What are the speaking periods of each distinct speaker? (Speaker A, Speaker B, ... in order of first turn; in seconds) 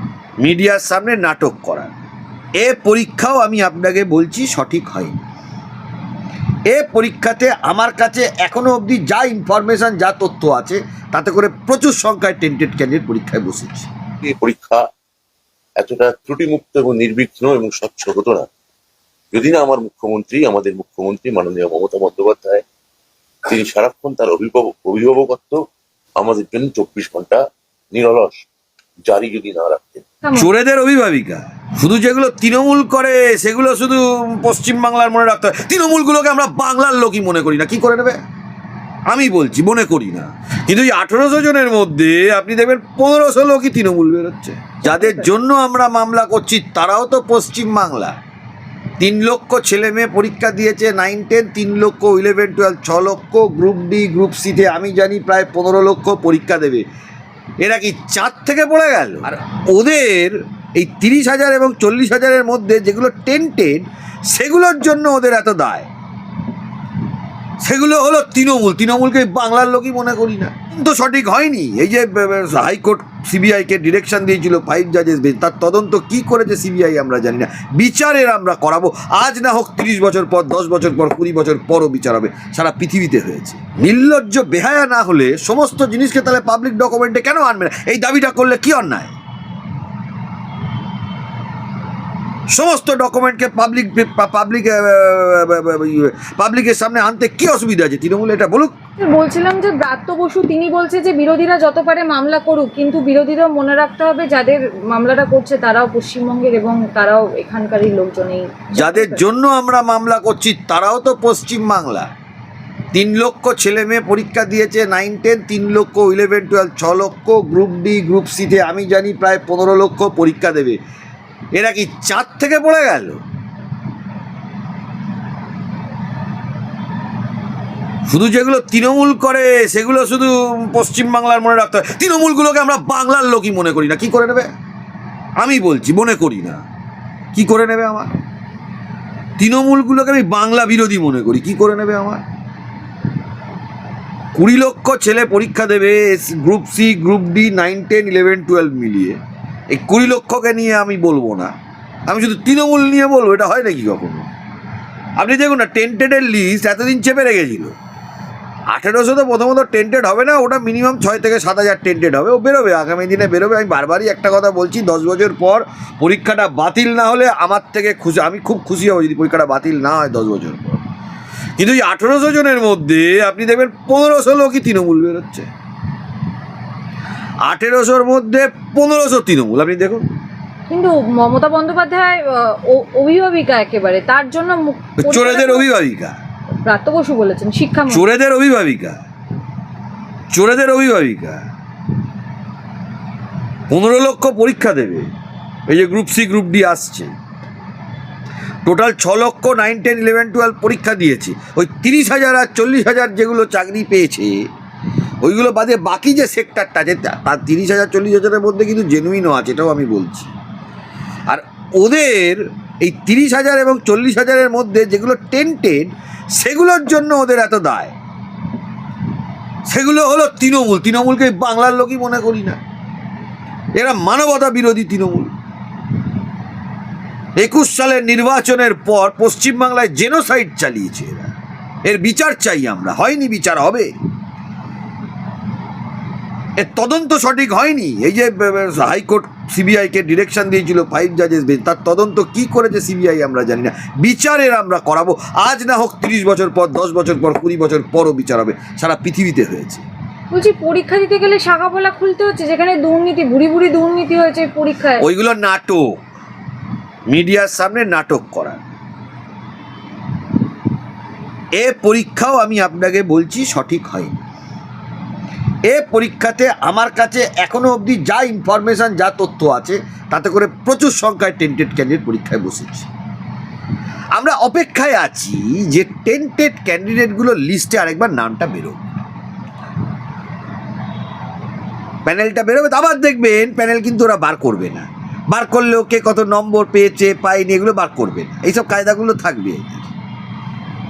Speaker A: 0.4-1.9, 2.6-5.2, 6.7-13.9, 30.3-38.2, 39.1-48.1, 49.0-56.8, 57.6-65.9, 67.6-89.1, 92.5-98.7, 108.8-112.1, 112.9-120.8, 121.5-123.2, 128.1-134.5, 135.4-136.6, 137.3-138.1, 139.4-142.2, 144.3-149.2, 149.7-151.5, 152.1-154.3, 155.2-157.7, 158.7-170.8, 171.6-175.5, 177.4-180.0, 185.0-186.1, 187.9-189.0, 190.3-191.4, 193.7-195.1, 195.7-197.1, 198.6-204.5, 205.2-210.3, 211.3-217.9, 219.7-222.6, 223.8-225.3, 227.4-231.3, 231.8-233.9, 236.6-249.8, 255.0-255.9, 257.1-258.6, 261.6-264.2, 265.7-272.9, 274.1-278.8, 282.0-289.9
Speaker B: 14.2-14.8, 15.8-18.5, 19.3-22.6, 23.4-25.6, 26.2-27.4, 27.9-28.4, 29.1-30.1
Speaker C: 30.2-30.5, 44.8-45.4, 99.0-109.3, 180.7-185.7, 186.7-188.1, 250.3-255.0